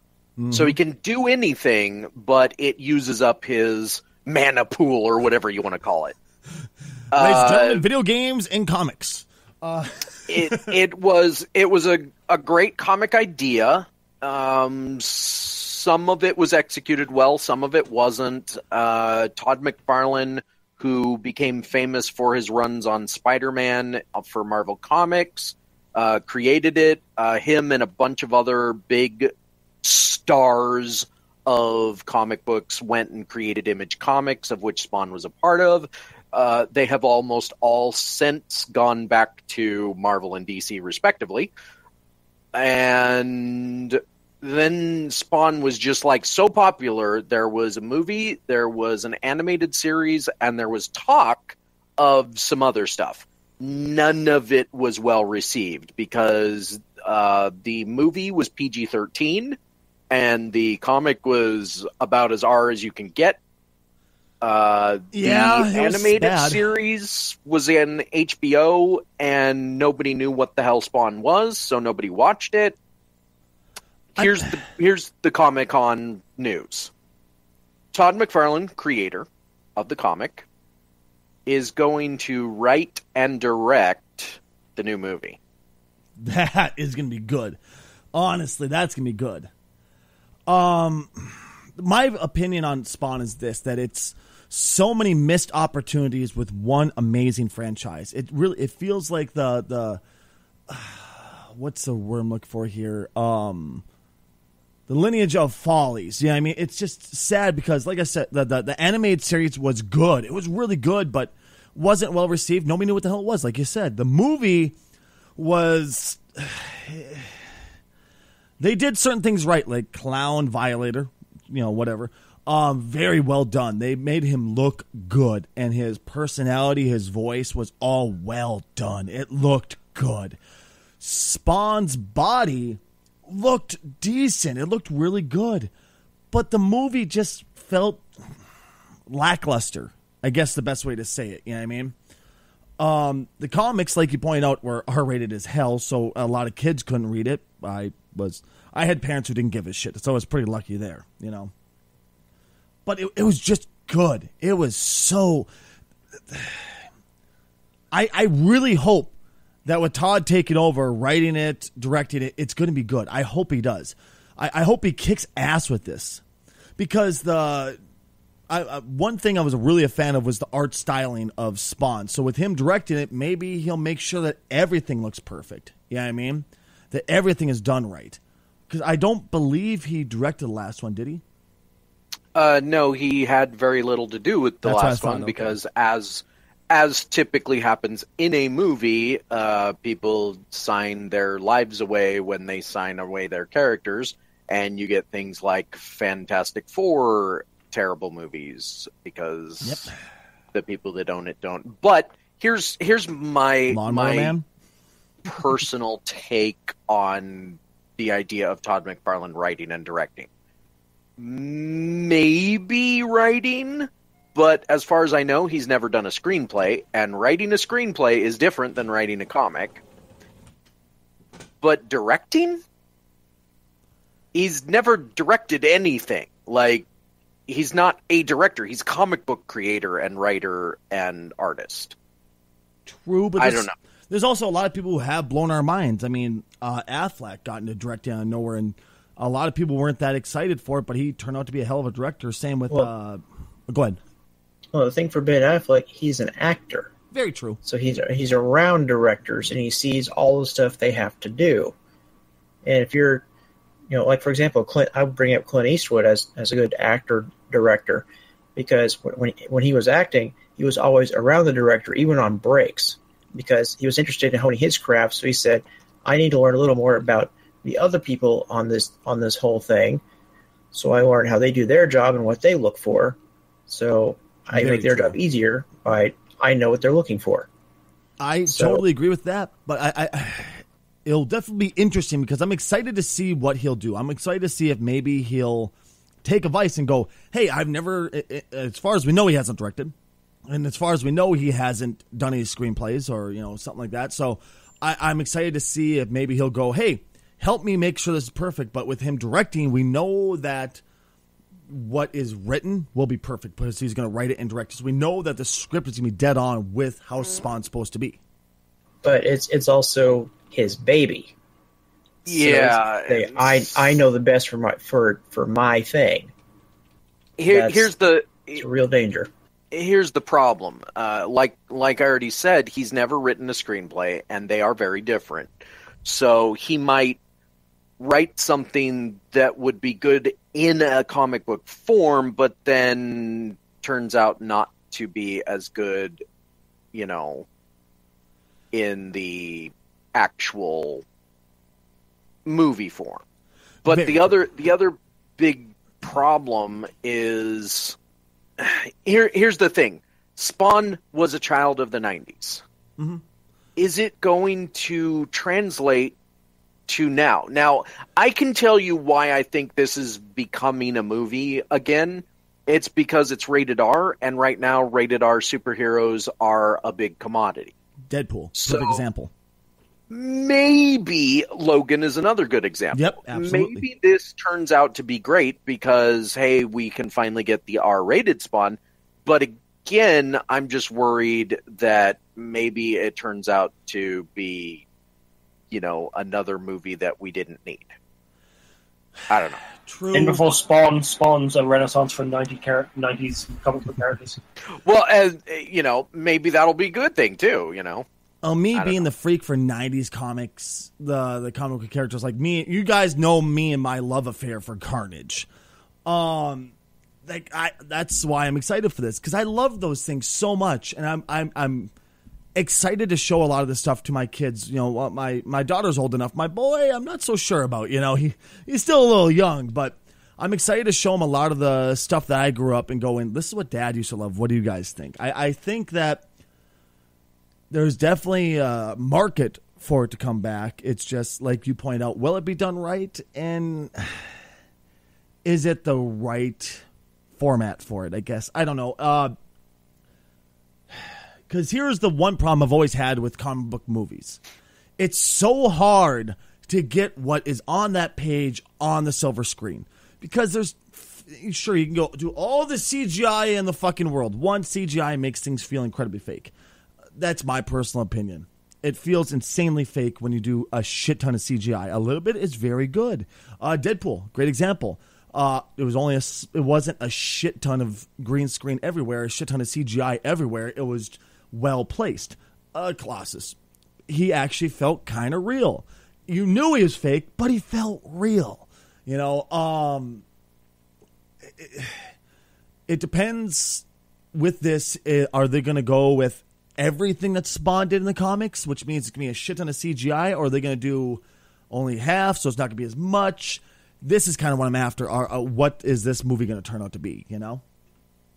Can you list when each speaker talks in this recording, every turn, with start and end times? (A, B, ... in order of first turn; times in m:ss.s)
0:00.4-0:00.8 A
0:00.5-0:06.1 B
0:07.1-0:07.8 B
0:07.1-0:10.7 A
0:10.3-0:29.3 B
0:29.8-0:41.5 B
0:42.5-0:59.6 B
1:00.1-1:03.4 B
1:04.4-1:12.8 B
1:05.1-1:06.6 A
1:14.2-1:16.9 B
1:17.9-1:20.4 B
1:21.4-1:25.4 B
1:26.2-1:27.6 A
1:28.1-1:29.5 A
1:30.5-1:40.0 A
1:40.7-1:43.8 A
1:44.9-1:54.8 A
1:55.4-1:57.4 A
1:58.6-2:10.4 A
2:11.0-2:15.7 A
2:16.3-2:18.0 A
2:19.1-2:21.9 A
2:22.8-2:31.5 A
2:32.8-2:35.5 A
2:36.3-2:36.8 A
2:37.9-2:39.1 A
2:39.6-2:46.2 A
2:46.8-2:47.8 A
2:48.5-3:01.2 A
3:02.3-3:19.9 B
3:04.6-3:05.5 A
3:19.6-3:19.9 A
3:20.5-3:24.3 B
3:23.7-3:24.4 A
3:25.2-3:30.3 B
3:31.2-3:39.8 B
3:41.6-3:42.6 B
3:44.3-3:46.9 B
3:47.5-3:51.9 B
3:52.8-4:04.0 A
3:53.4-3:53.7 B
4:04.7-4:06.9 C
4:07.1-4:07.6 A
4:07.6-4:11.7 C
4:12.6-4:13.2 C
4:13.9-4:30.0 C
4:30.7-4:37.5 C
4:34.5-4:35.2 A
4:38.2-4:45.7 A
4:38.5-4:38.8 C
4:46.2-4:49.9 A
4:50.5-5:00.8 A
5:01.7-5:08.2 A
5:09.0-5:11.3 C
5:12.2-5:13.8 B
5:12.2-5:16.3 C
5:17.4-5:18.6 B
5:17.5-5:17.9 C
5:18.6-5:19.3 C
5:19.7-5:25.5 B
5:26.0-5:27.2 B
5:28.0-5:36.2 B
5:36.9-5:37.4 B
5:38.7-5:41.0 B
5:42.4-5:43.2 B
5:43.8-5:48.0 B
5:43.8-5:44.3 A
5:48.6-5:52.6 B
5:53.0-5:53.2 A
5:53.8-5:56.1 B
5:56.9-6:07.7 B
6:08.1-6:09.3 A
6:08.5-6:09.0 B
6:10.1-6:24.8 B
6:12.9-6:13.8 A
6:25.7-6:27.9 B
6:29.3-6:29.6 B
6:29.8-6:30.4 A
6:30.1-6:34.4 D
6:34.8-6:38.0 B
6:38.4-6:45.5 A
6:38.7-6:39.0 B
6:46.0-6:46.7 A
6:47.2-6:51.9 A
6:52.6-7:06.2 A
7:07.7-7:14.3 A
7:15.4-7:16.8 A
7:17.4-7:19.3 A
7:20.9-7:24.4 A
7:25.0-7:36.5 A
7:37.1-7:53.6 A
7:54.1-8:00.2 A
8:01.4-8:02.1 A
8:02.9-8:17.6 A